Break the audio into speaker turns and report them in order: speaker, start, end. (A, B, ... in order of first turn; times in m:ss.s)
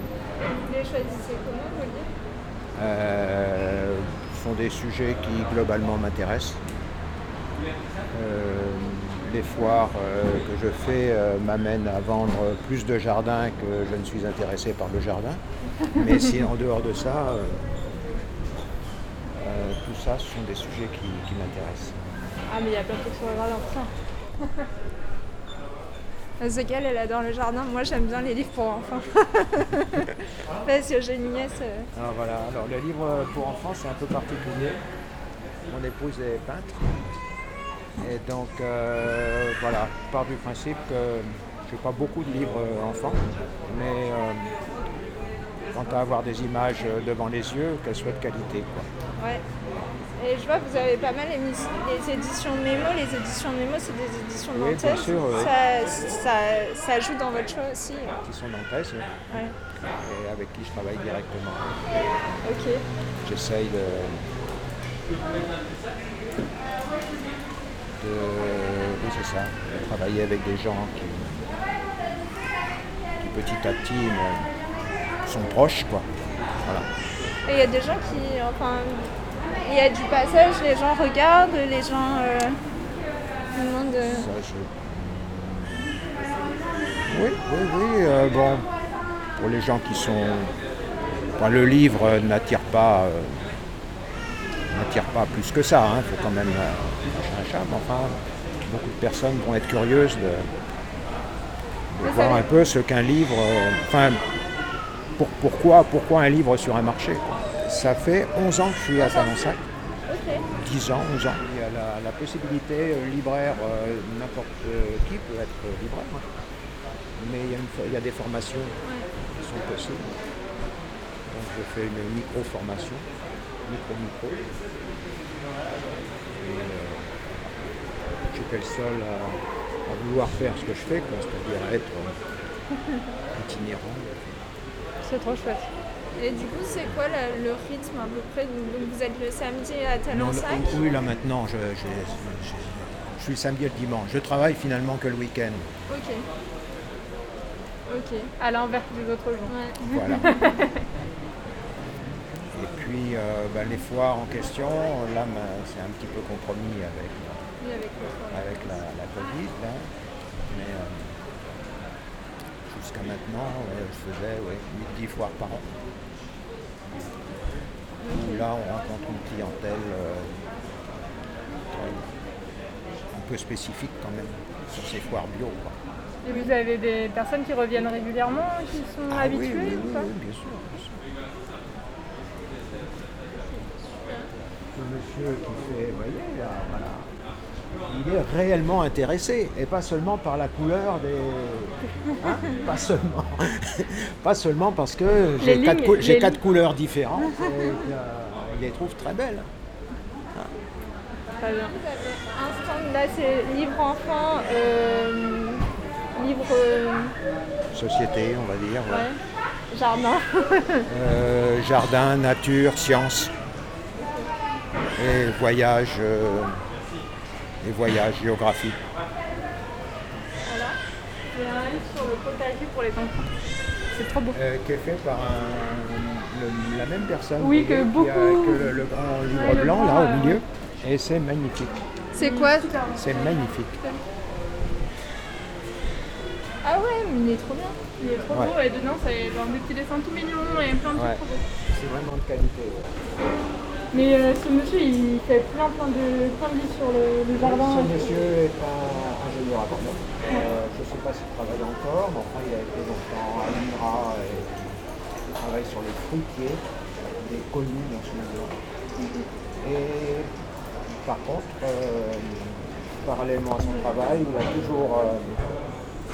0:00.5-0:02.1 A
0:02.7-0:06.6 B
0:08.1-0:15.4 B
0:15.9-0:17.6 B
0:15.9-0:16.3 C
0:19.4-0:22.0 B
0:22.5-0:23.9 C
0:26.4-0:31.9 A
0:31.9-0:34.8 B
0:35.7-0:36.9 B
0:38.0-0:44.5 B
0:45.7-0:48.9 B
0:49.2-0:49.4 A
0:50.2-0:58.2 A
0:54.5-0:55.5 B
0:58.2-0:59.1 B
0:59.3-0:59.5 A
0:59.8-1:01.9 B
1:02.4-1:02.8 A
1:03.2-1:04.2 B
1:08.0-1:11.4 B
1:13.2-1:14.5 B
1:15.2-1:16.0 B
1:17.5-1:19.1 A
1:19.6-1:22.6 A
1:23.5-1:24.3 A
1:24.1-1:26.0 B
1:27.1-1:28.7 B
1:29.4-1:30.5 B
1:31.3-1:33.4 B
1:34.7-1:40.5 B
1:41.9-1:44.2 B
1:42.0-1:42.6 A
1:45.2-1:49.6 B
1:49.0-1:49.5 A
1:50.1-1:50.4 A
1:50.5-1:56.2 B
1:57.2-1:58.8 B
1:59.4-2:00.2 B
2:01.3-2:03.1 B
2:03.6-2:04.5 B
2:06.4-2:07.6 B
2:08.3-2:12.1 B
2:13.3-2:14.4 B
2:15.0-2:15.7 C
2:16.2-2:20.8 A
2:20.1-2:25.6 B
2:25.9-2:26.2 A
2:27.9-2:28.3 A
2:28.4-2:30.8 C
2:29.5-2:29.8 A
2:29.8-2:30.3 B
2:32.5-2:37.4 B
2:37.6-2:38.8 A
2:38.3-2:39.8 B
2:40.5-2:41.2 B
2:42.7-2:45.6 B
2:48.0-2:48.4 A
2:48.1-2:50.4 B
2:51.7-2:52.1 B
2:53.1-2:55.8 B
2:56.2-3:00.1 C
2:59.1-3:01.0 B
3:03.4-3:04.3 A
3:04.7-3:07.1 B
3:07.8-3:19.5 B
3:15.4-3:16.4 C
3:21.4-3:21.7 C
3:21.4-3:27.1 A
3:27.7-3:29.1 B
3:28.9-3:29.2 A
3:29.7-3:30.9 A
3:30.9-3:33.3 B
3:34.0-3:34.3 A
3:35.0-3:36.5 B
3:37.6-3:38.8 B
3:40.4-3:40.8 A
3:41.3-3:43.3 C
3:43.9-3:44.4 C
3:44.3-3:51.8 B
3:47.4-3:50.4 C
3:52.1-3:52.8 A
3:52.1-3:54.0 C
3:52.9-3:53.8 B
3:56.6-3:57.8 A
3:58.0-4:01.4 C
3:58.3-3:58.6 B
4:00.9-4:03.3 B
4:03.9-4:08.2 C
4:07.3-4:14.8 B
4:15.4-4:18.5 B
4:19.6-4:20.3 B
4:21.0-4:25.4 B